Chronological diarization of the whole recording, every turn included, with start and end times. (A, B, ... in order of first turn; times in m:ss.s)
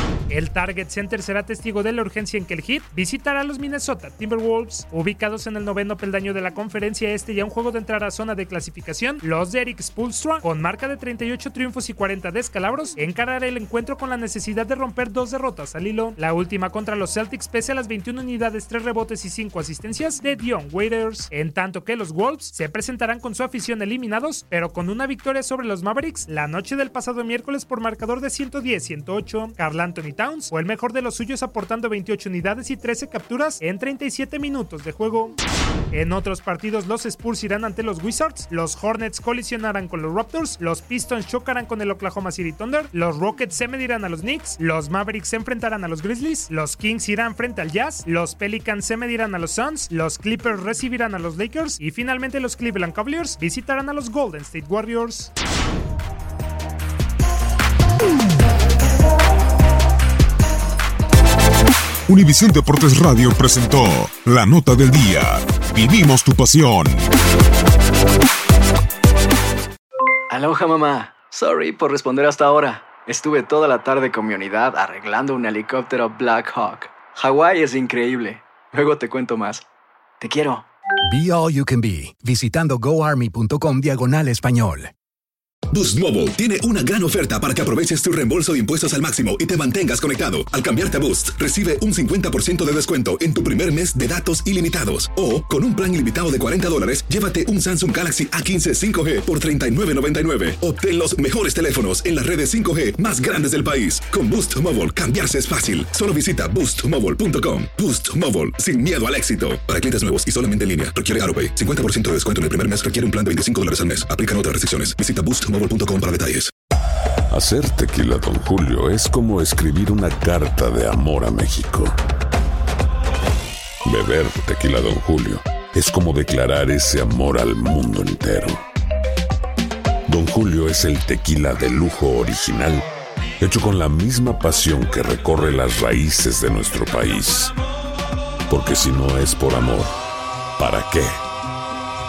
0:00.3-0:35.4 A
0:35.9-0:55.3 A
1:02.1-1:07.0 B
1:10.3-1:19.6 C
1:20.2-1:20.6 C
1:21.1-1:24.9 D
1:25.7-1:56.5 E
1:57.3-2:02.0 F
2:03.8-2:08.6 F
2:10.1-2:12.9 F
2:13.4-2:17.6 F
2:18.5-2:19.9 F
2:20.6-2:21.1 F